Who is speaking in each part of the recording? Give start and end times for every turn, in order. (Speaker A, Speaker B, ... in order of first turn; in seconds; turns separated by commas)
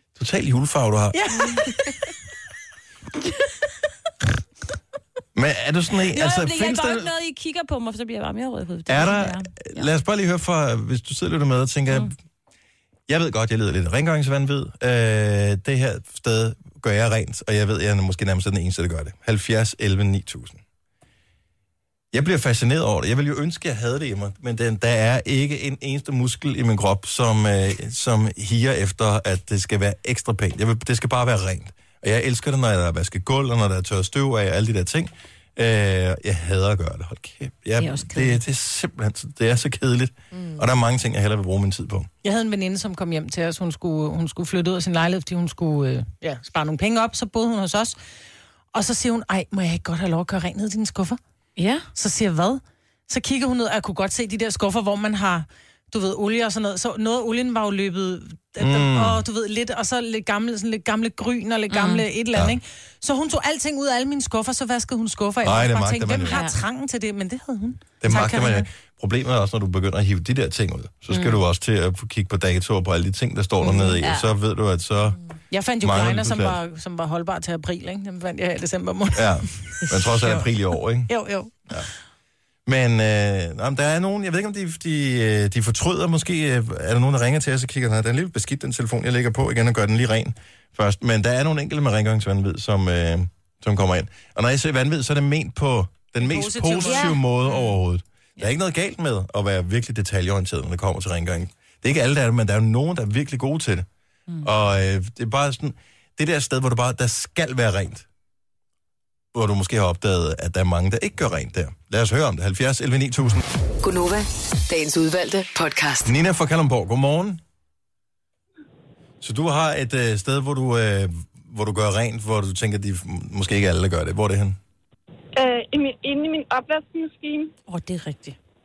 Speaker A: 0.1-1.5, Speaker B: 1.1-1.9, Speaker A: 5.3-7.1, Speaker C: 6.1-9.9, Speaker A: 8.9-12.1, Speaker A: 13.1-20.6, Speaker A: 22.1-42.1, Speaker C: 37.8-38.4, Speaker B: 42.2-48.0, Speaker B: 48.7-51.2, Speaker C: 51.6-51.9, Speaker B: 51.9-68.7, Speaker A: 58.6-59.2, Speaker C: 61.7-62.0, Speaker A: 65.4-66.4, Speaker C: 66.3-66.6, Speaker A: 68.0-75.2, Speaker B: 73.7-73.9, Speaker C: 74.0-74.3, Speaker B: 75.5-80.4, Speaker A: 75.8-76.6, Speaker A: 79.1-81.1, Speaker B: 81.1-81.5, Speaker A: 82.7-103.9, Speaker B: 96.2-97.1, Speaker C: 96.8-97.7, Speaker A: 104.4-108.0, Speaker A: 109.3-113.4, Speaker D: 113.8-116.1, Speaker A: 116.0-117.4, Speaker A: 119.2-124.6, Speaker E: 125.3-127.5, Speaker C: 127.7-128.3